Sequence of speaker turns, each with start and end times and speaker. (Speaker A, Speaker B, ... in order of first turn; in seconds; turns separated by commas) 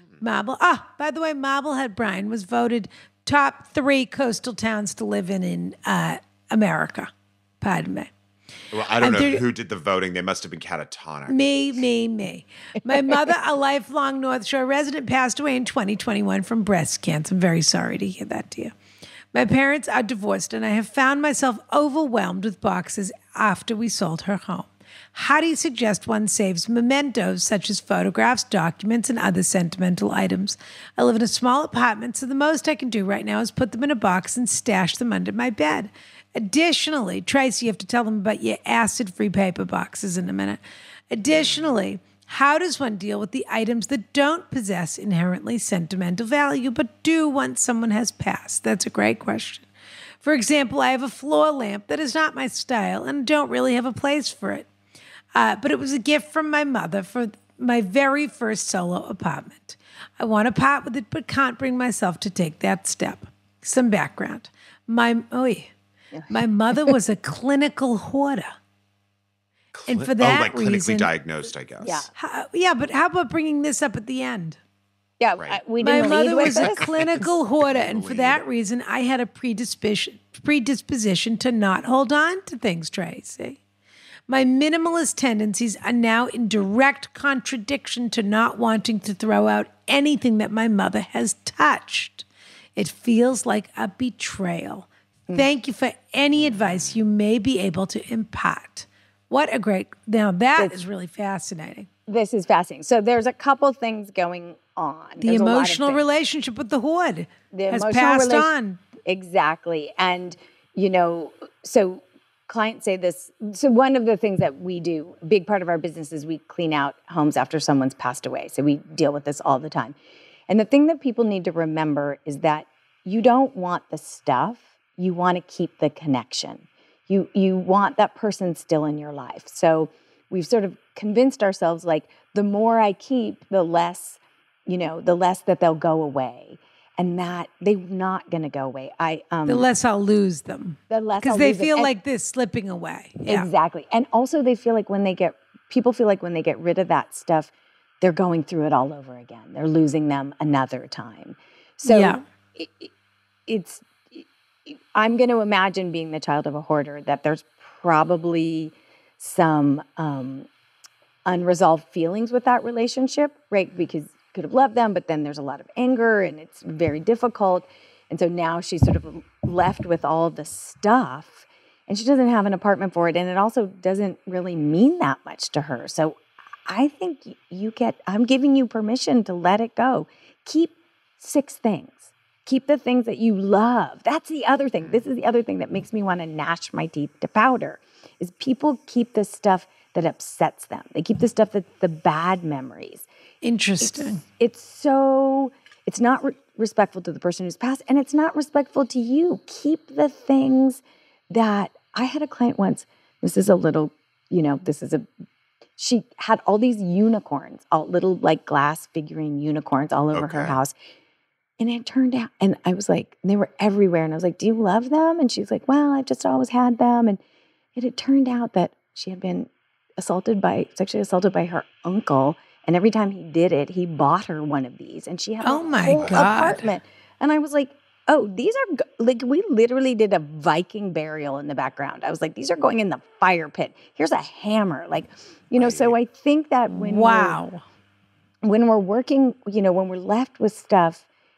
Speaker A: 0.2-7.1, Speaker A: 7.6-8.1, Speaker B: 8.7-11.6, Speaker A: 9.0-9.4, Speaker A: 11.3-18.7, Speaker A: 19.3-49.7, Speaker B: 41.3-41.6, Speaker A: 50.2-54.7, Speaker A: 55.4-65.7, Speaker C: 66.1-66.5, Speaker A: 66.3-68.5, Speaker B: 69.7-72.1, Speaker A: 69.9-71.1, Speaker C: 71.8-72.1, Speaker A: 72.2-74.6, Speaker C: 75.2-77.2, Speaker B: 75.4-78.4, Speaker A: 75.8-83.6, Speaker A: 84.3-101.9, Speaker C: 102.1-106.0, Speaker A: 105.2-108.8, Speaker C: 107.5-108.5, Speaker C: 109.1-120.0, Speaker C: 120.5-139.7, Speaker A: 139.5-143.5, Speaker C: 140.9-141.9, Speaker C: 143.3-152.9, Speaker A: 151.9-152.2, Speaker C: 153.5-160.5, Speaker C: 161.3-193.1, Speaker A: 193.4-194.2, Speaker C: 193.8-205.1, Speaker C: 205.8-210.8, Speaker B: 210.1-210.6, Speaker C: 211.6-217.2, Speaker C: 217.8-237.4, Speaker A: 225.4-226.7, Speaker B: 225.9-226.6, Speaker B: 235.6-236.0, Speaker A: 236.7-237.6, Speaker C: 238.4-241.1